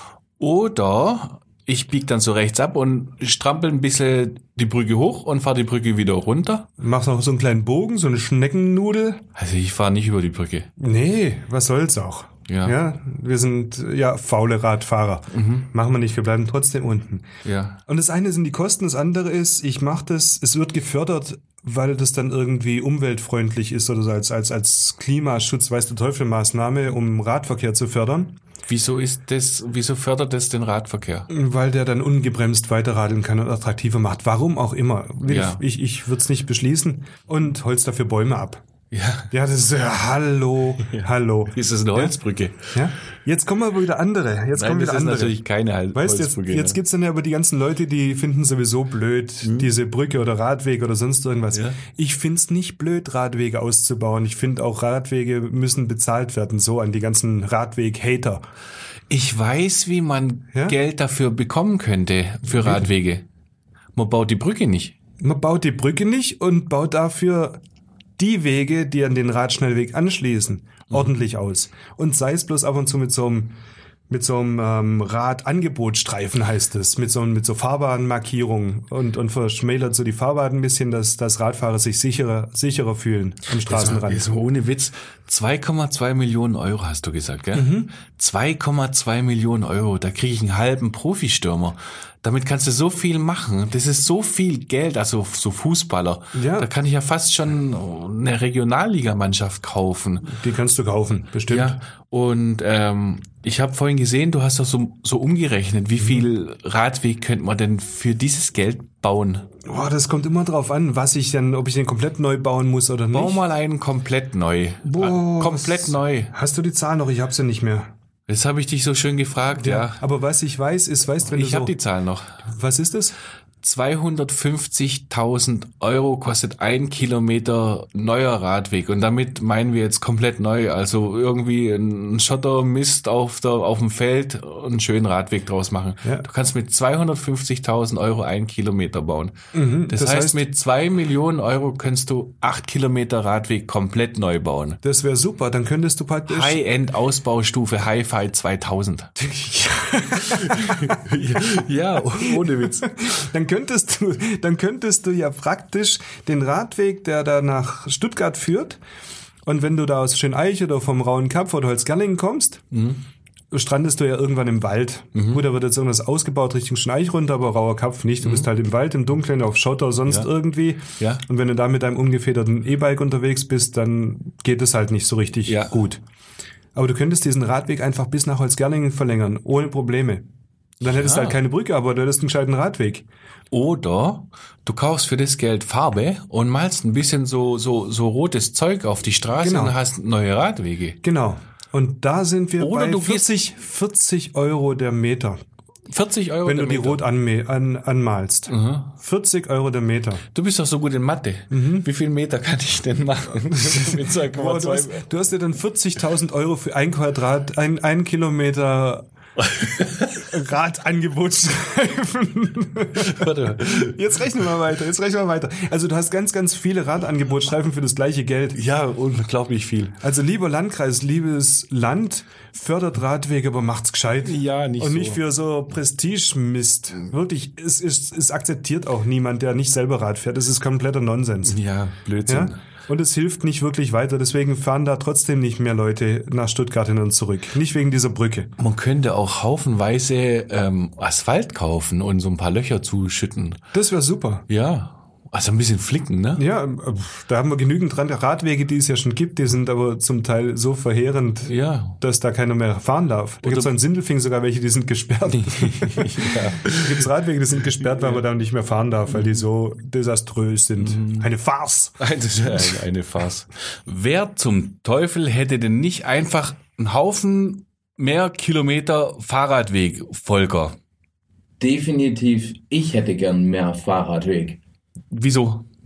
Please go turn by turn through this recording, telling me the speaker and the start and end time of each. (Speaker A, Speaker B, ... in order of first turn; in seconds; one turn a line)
Speaker A: 0.4-6.7
Speaker B: 6.8-9.2
Speaker A: 9.3-10.7
Speaker B: 10.8-17.3
Speaker A: 12.5-12.8
Speaker A: 15.3-15.7
Speaker A: 17.4-17.8
Speaker B: 17.9-28.4
Speaker A: 28.7-31.3
Speaker B: 31.3-38.6
Speaker A: 35.2-35.6
Speaker A: 38.9-39.3
Speaker B: 39.3-42.1
Speaker A: 40.8-42.7
Speaker B: 42.7-45.4
Speaker A: 44.5-46.8
Speaker B: 45.9-58.4
Speaker A: 49.4-49.7
Speaker A: 51.5-51.8
Speaker A: 59.1-63.2
Speaker B: 62.5-62.9
Speaker A: 63.9-64.9
Speaker B: 65.2-67.6
Speaker B: 68.2-73.6
Speaker B: 74.1-84.2
Speaker A: 83.6-100.3
Speaker B: 87.5-87.9
Speaker B: 96.3-96.7
Speaker B: 100.3-101.8
Speaker A: 101.5-109.5
Speaker B: 109.6-113.4
Speaker A: 113.1-116.3
Speaker B: 114.8-117.9
Speaker A: 118.3-120.0
Speaker B: 119.5-121.7
Speaker A: 121.2-122.4
Speaker B: 122.4-123.2
Speaker A: 123.6-139.4
Speaker B: 139.5-140.4
Speaker A: 139.9-144.8
Speaker B: 144.8-146.6
Speaker A: 146.3-149.1
Speaker B: 149.2-151.0
Speaker A: 150.2-153.1
Speaker B: 152.1-158.8
Speaker B: 159.4-162.6
Speaker A: 162.7-163.0
Speaker B: 163.5-176.0
Speaker A: 165.1-165.4
Speaker A: 168.2-168.5
Speaker A: 171.0-171.2
Speaker A: 175.5-175.8
Speaker B: 176.7-180.3
Speaker B: 180.8-183.1
Speaker A: 180.8-181.4
Speaker A: 183.5-191.0
Speaker B: 189.4-189.8
Speaker B: 191.0-195.4
Speaker A: 192.6-193.3
Speaker A: 195.9-197.0
Speaker B: 196.4-200.2
Speaker A: 198.5-198.9
Speaker A: 200.3-205.0
Speaker B: 201.5-201.9
Speaker B: 203.5-209.1
Speaker A: 209.4-210.3
Speaker B: 210.1-218.6
Speaker A: 212.9-213.9
Speaker A: 218.5-220.0
Speaker B: 220.0-231.6
Speaker A: 224.2-225.2
Speaker A: 231.4-232.6
Speaker B: 232.3-238.5
Speaker A: 238.6-243.6
Speaker B: 243.7-244.4
Speaker A: 244.5-246.4
Speaker B: 246.4-262.0
Speaker A: 251.4-252.0
Speaker A: 253.4-253.7
Speaker A: 255.3-257.1
Speaker A: 260.8-261.3
Speaker A: 262.0-270.8
Speaker C: 271.6-274.6
Speaker A: 275.1-275.6